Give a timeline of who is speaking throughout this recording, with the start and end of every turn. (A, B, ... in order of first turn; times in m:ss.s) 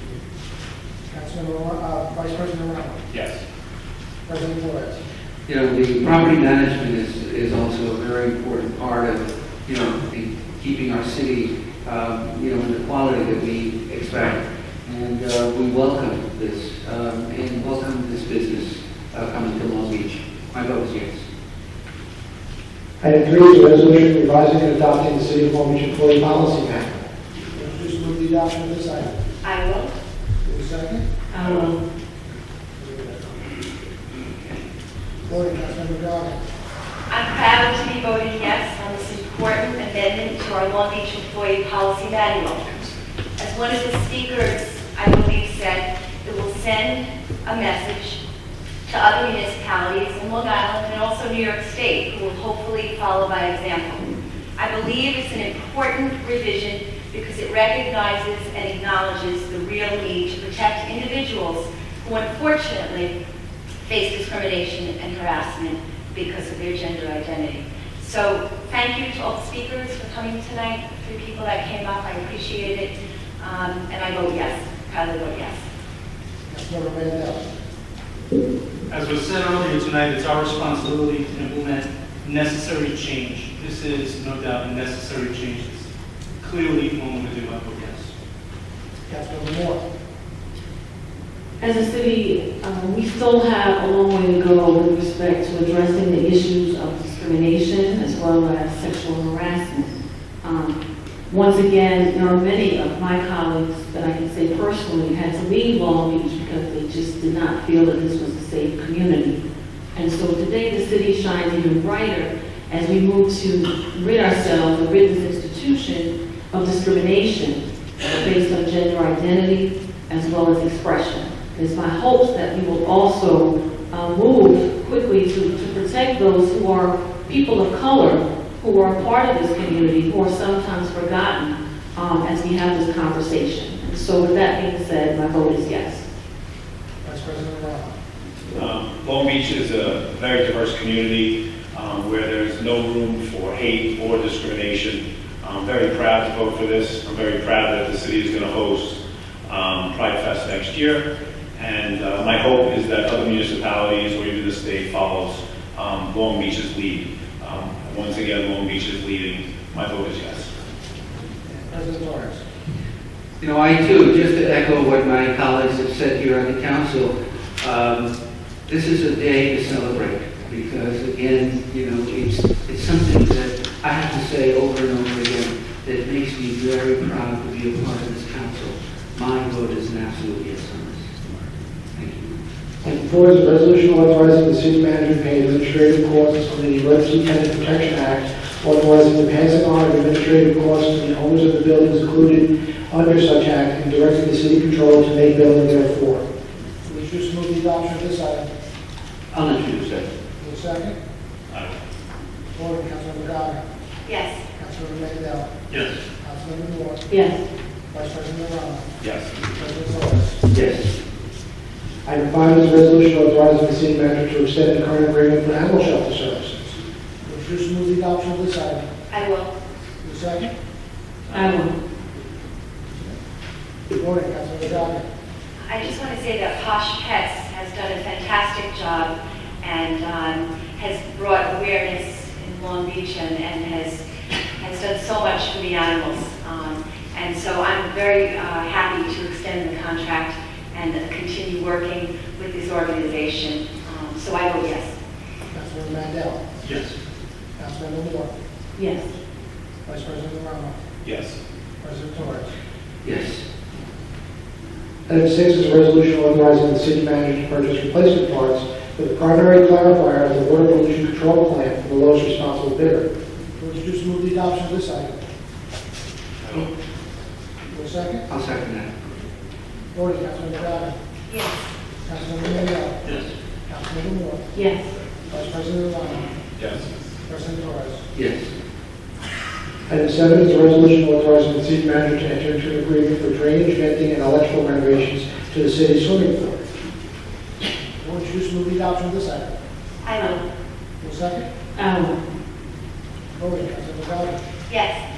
0:01.1-0:03.0 A
0:03.1-0:03.4 B
0:04.2-0:05.0 A
0:05.5-0:21.2 C
0:23.0-0:27.0 D
0:27.5-0:29.1 A
0:29.4-0:29.9 E
0:30.4-0:31.0 A
0:31.3-0:31.8 F
0:35.3-0:36.4 A
0:37.1-0:48.2 E
0:48.9-1:03.1 E
1:03.8-1:15.6 E
1:16.5-1:17.4 A
1:18.9-1:25.9 G
1:26.4-1:28.1 G
1:29.1-1:29.8 A
1:31.6-1:40.8 F
1:41.3-1:49.4 F
1:49.9-2:16.0 F
2:17.0-2:17.9 A
2:18.5-2:40.5 B
2:41.5-2:42.4 A
2:43.4-2:48.1 C
2:48.7-3:02.3 C
3:02.8-3:16.2 D
3:16.8-3:18.5 A
3:19.3-3:20.1 C
3:20.4-3:20.9 A
3:21.5-3:21.8 B
3:22.5-3:23.6 A
3:24.0-3:24.4 E
3:24.6-3:25.5 A
3:25.7-3:26.0 G
3:26.2-3:27.0 A
3:27.1-3:27.4 F
3:27.9-3:28.9 A
3:29.0-3:29.4 B
3:29.4-3:30.4 A
3:30.5-3:30.9 C
3:32.0-3:36.7 D
3:37.2-3:38.8 A
3:39.1-3:39.5 E
3:40.0-3:40.5 A
3:41.3-3:41.7 F
3:43.9-3:45.1 A
3:45.7-3:54.0 E
3:54.6-4:04.9 E
4:05.5-4:06.5 A
4:06.6-4:07.0 G
4:07.6-4:08.3 A
4:08.8-4:09.1 F
4:09.8-4:10.8 A
4:11.0-4:11.4 B
4:11.8-4:12.5 A
4:13.0-4:13.4 C
4:15.1-4:23.1 D
4:23.6-4:25.2 A
4:27.7-4:28.2 A
4:28.3-4:28.9 C
4:29.9-4:30.9 A
4:31.3-4:31.6 E
4:32.0-4:33.1 A
4:33.0-4:33.3 G
4:33.6-4:34.4 A
4:34.5-4:34.9 F
4:35.3-4:36.3 A
4:36.6-4:36.8 B
4:37.2-4:38.0 A
4:38.1-4:38.5 C
4:39.9-4:46.6 D
4:48.0-4:49.5 A
4:50.0-4:50.4 E
4:51.0-4:51.5 A
4:51.8-4:52.2 F
4:53.3-4:54.4 A
4:54.7-4:55.0 E